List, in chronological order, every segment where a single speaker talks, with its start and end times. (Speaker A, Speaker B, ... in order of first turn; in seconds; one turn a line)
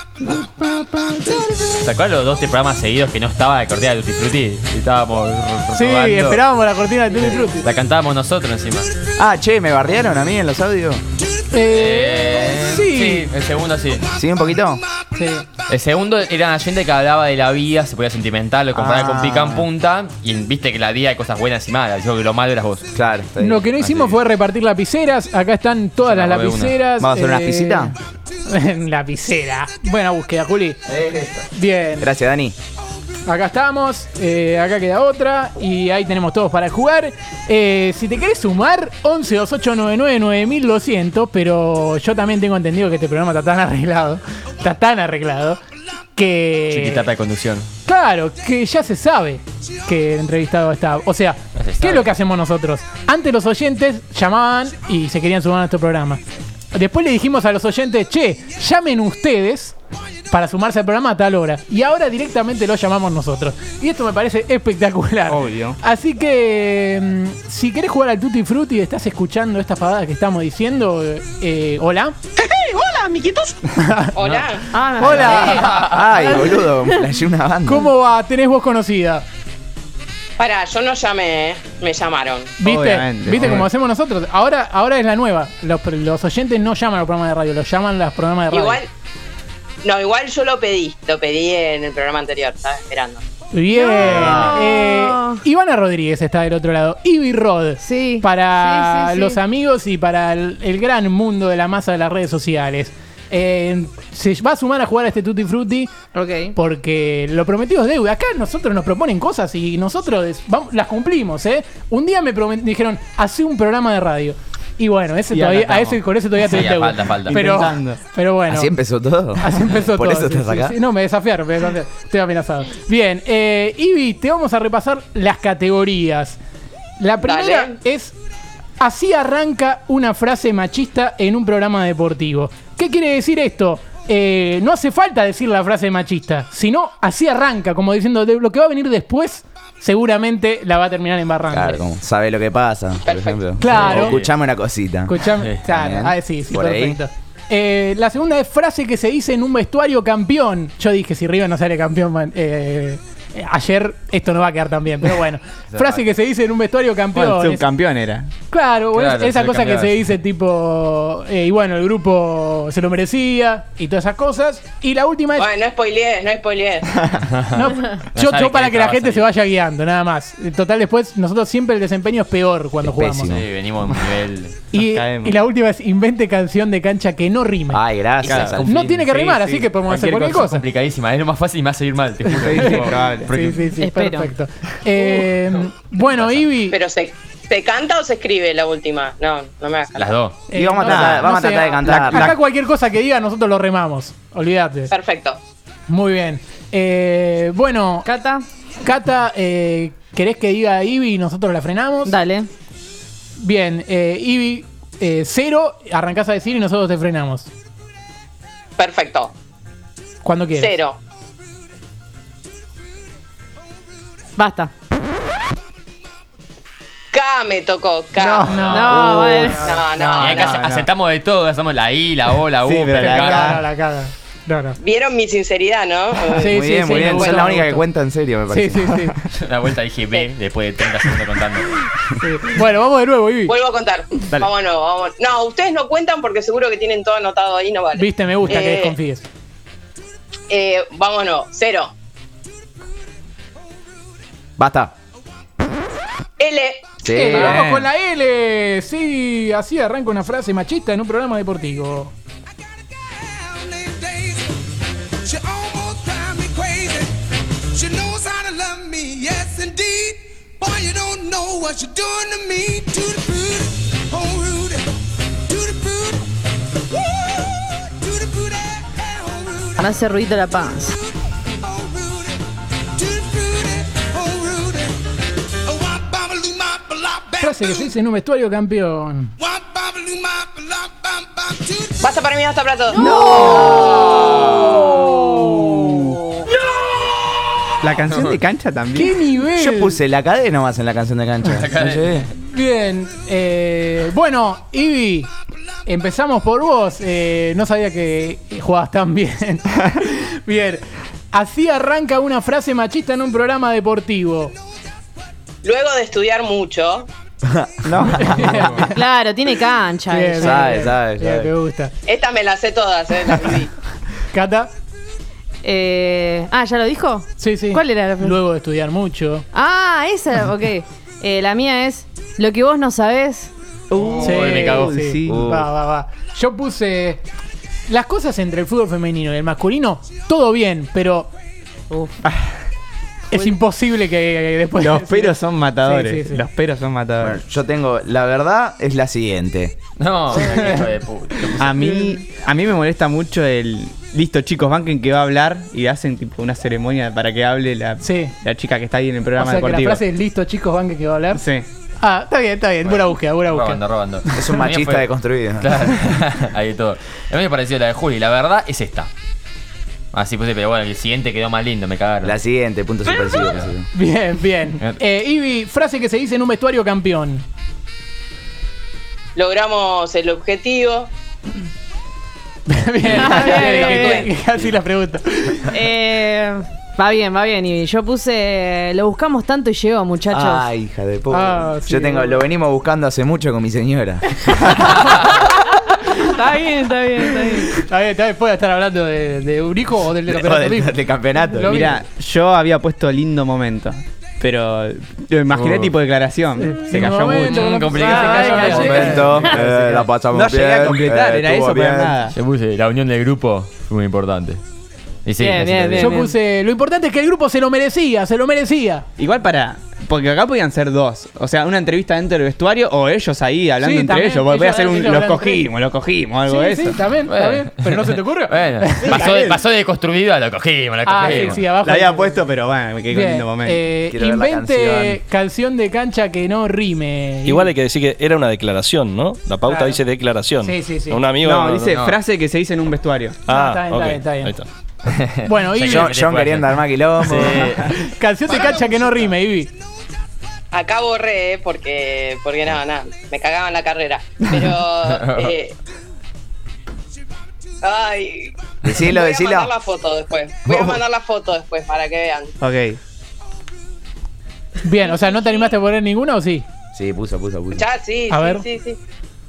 Speaker A: 1.6-6.4
Speaker B: 5.7-7.7
Speaker A: 7.6-9.0
Speaker C: 9.2-11.0
Speaker B: 11.5-13.3
Speaker A: 11.7-14.2
Speaker C: 14.1-14.8
Speaker B: 15.1-15.5
Speaker A: 15.7-22.9
Speaker C: 18.7-19.7
Speaker C: 22.9-23.6
Speaker B: 23.4-30.8
Speaker A: 23.8-24.1
Speaker A: 26.0-26.8
Speaker C: 27.0-27.9
Speaker C: 30.9-31.5
Speaker B: 31.5-32.1
Speaker C: 32.0-32.5
Speaker B: 33.3-45.6
Speaker B: 46.2-47.1
Speaker A: 46.7-47.7
Speaker B: 47.9-56.2
Speaker A: 51.6-52.1
Speaker B: 56.7-59.8
Speaker B: 60.3-72.2
Speaker D: 65.3-65.8
Speaker B: 73.7-74.1
Speaker E: 74.2-74.7
Speaker F: 74.7-75.7
Speaker B: 75.0-75.9
Speaker C: 75.2-77.9
Speaker A: 75.6-76.1
Speaker F: 76.3-77.0
Speaker B: 77.7-79.2
Speaker E: 80.4-82.6
Speaker D: 82.6-83.7
Speaker B: 82.6-88.8
Speaker E: 88.5-88.9
Speaker E: 89.8-93.2
Speaker B: 93.5-105.9
Speaker F: 93.7-95.4
Speaker E: 94.2-94.5
Speaker F: 97.8-99.4
Speaker F: 106.1-106.6
Speaker B: 106.5-118.7
Speaker D: 115.3-116.0
Speaker A: 116.4-117.4
Speaker D: 117.3-118.0
Speaker C: 118.5-120.8
Speaker B: 119.4-126.4
Speaker B: 127.0-128.2
Speaker E: 127.2-127.8
Speaker B: 128.8-141.8
Speaker C: 141.5-147.0
Speaker E: 143.1-143.4
Speaker B: 143.6-144.2
Speaker A: 143.6-144.3
Speaker B: 145.1-157.6
Speaker A: 155.7-156.0
Speaker D: 157.2-158.3
Speaker B: 158.5-165.5
Speaker A: 158.9-159.9
Speaker E: 165.4-167.1
Speaker A: 167.2-169.2
Speaker B: 167.5-173.4
Speaker C: 172.8-173.4
Speaker A: 173.2-174.6
Speaker B: 174.7-177.8
Speaker D: 174.8-175.4
Speaker C: 177.7-178.8
Speaker A: 178.2-178.9
Speaker D: 178.3-179.8
Speaker B: 178.6-180.7
Speaker A: 179.9-183.7
Speaker D: 182.3-183.3
Speaker B: 183.3-186.8
Speaker F: 183.8-184.3
Speaker A: 186.2-186.4
Speaker E: 186.7-190.1
Speaker A: 190.0-190.4
Speaker B: 190.5-194.9
Speaker C: 190.5-192.3
Speaker D: 190.8-192.4
Speaker E: 194.9-195.4
Speaker B: 195.9-198.1
Speaker F: 198.0-198.4
Speaker B: 198.8-202.1
Speaker F: 202.1-202.5
Speaker B: 203.4-207.5
Speaker E: 208.8-209.3
Speaker B: 210.2-210.7
Speaker E: 210.6-211.0
Speaker F: 214.4-214.7
Speaker E: 217.1-218.8
Speaker D: 218.2-219.3
Speaker B: 218.5-219.8
Speaker F: 218.6-219.7
Speaker E: 219.5-220.6
Speaker D: 220.0-220.9
Speaker A: 220.2-223.6
Speaker D: 222.6-223.6
Speaker B: 223.0-224.8
Speaker E: 224.8-227.6
Speaker B: 226.4-227.8
Speaker C: 226.4-228.9
Speaker B: 228.5-229.2
Speaker A: 229.4-231.8
Speaker B: 232.2-233.6
Speaker E: 233.5-238.9
Speaker B: 238.0-239.3
Speaker E: 240.5-241.9
Speaker C: 244.6-244.9
Speaker E: 246.4-247.6
Speaker C: 247.0-247.6
Speaker B: 247.1-252.1
Speaker D: 247.3-247.9
Speaker G: 253.8-254.3
Speaker G: 255.6-257.0
Speaker G: 258.0-260.1
Speaker H: 258.6-259.2
Speaker G: 260.8-263.0
Speaker G: 264.2-264.6
Speaker F: 269.8-270.9
Speaker B: 277.4-279.3
Speaker E: 282.0-284.1
Speaker B: 282.9-286.1
Speaker F: 283.0-283.9
Speaker D: 283.0-283.7
Speaker A: 284.1-284.8
Speaker D: 287.8-289.2
Speaker A: 288.1-288.4
Speaker B: 288.9-290.0
Speaker C: 289.6-292.3
Speaker A: 291.5-292.3
Speaker B: 292.4-295.3
Speaker B: 295.9-304.6
Speaker E: 305.6-307.1
Speaker C: 307.4-308.8
Speaker D: 307.9-308.5
Speaker B: 308.2-308.8
Speaker F: 308.8-310.8
Speaker B: 310.1-311.9
Speaker C: 310.4-311.5
Speaker E: 312.1-313.7
Speaker B: 314.3-314.7
Speaker F: 315.6-318.4
Speaker B: 317.4-319.5
Speaker F: 319.5-323.5
Speaker D: 323.9-325.6
Speaker A: 323.9-324.9
Speaker B: 324.2-327.2
Speaker C: 325.3-325.7
Speaker B: 327.9-331.3
Speaker F: 331.9-332.2
Speaker D: 332.2-332.6
Speaker B: 333.3-336.4
Speaker D: 334.8-337.4
Speaker C: 337.2-339.8
Speaker A: 340.0-342.0
Speaker D: 341.6-350.0
Speaker B: 348.0-348.4
Speaker B: 349.4-351.4
Speaker D: 351.3-351.7
Speaker B: 352.0-354.6
Speaker A: 353.5-359.1
Speaker C: 354.4-355.8
Speaker A: 360.1-362.4
Speaker C: 362.2-363.9
Speaker A: 363.4-363.7
Speaker B: 363.9-367.4
Speaker E: 369.4-371.1
Speaker B: 372.7-375.7
Speaker F: 373.1-374.3
Speaker E: 373.3-374.3
Speaker F: 375.7-380.7
Speaker C: 380.3-384.7
Speaker B: 381.3-382.4
Speaker F: 385.1-387.8
Speaker B: 387.7-391.0
Speaker C: 390.3-391.9
Speaker B: 391.5-392.0
Speaker D: 391.6-397.7
Speaker A: 395.5-395.9
Speaker B: 396.6-399.4
Speaker A: 397.4-399.5
Speaker F: 397.8-399.6
Speaker C: 398.7-402.1
Speaker D: 399.3-402.3
Speaker A: 402.3-404.6
Speaker A: 405.3-406.2
Speaker F: 405.4-406.4
Speaker B: 406.0-409.1
Speaker D: 409.2-417.0
Speaker B: 413.8-415.7
Speaker F: 414.7-415.2
Speaker B: 416.5-419.4
Speaker A: 417.3-421.6
Speaker D: 419.1-419.6
Speaker B: 421.1-422.4
Speaker D: 421.6-423.8
Speaker B: 423.1-427.7
Speaker C: 424.1-425.2
Speaker H: 427.4-432.0
Speaker B: 429.7-430.0
Speaker B: 430.6-431.2
Speaker D: 431.4-433.4
Speaker A: 431.9-432.2
Speaker H: 433.5-434.7
Speaker B: 433.5-434.6
Speaker A: 435.1-437.9
Speaker B: 435.4-436.1
Speaker C: 435.9-437.7
Speaker D: 437.5-438.1
Speaker B: 438.0-439.7
Speaker E: 440.7-445.8
Speaker A: 445.1-445.6
Speaker E: 447.8-452.5
Speaker C: 448.8-449.7
Speaker C: 450.7-451.0
Speaker D: 452.6-453.0
Speaker B: 454.8-456.6
Speaker E: 455.1-455.7
Speaker C: 456.9-457.9
Speaker E: 457.7-459.0
Speaker B: 458.3-458.6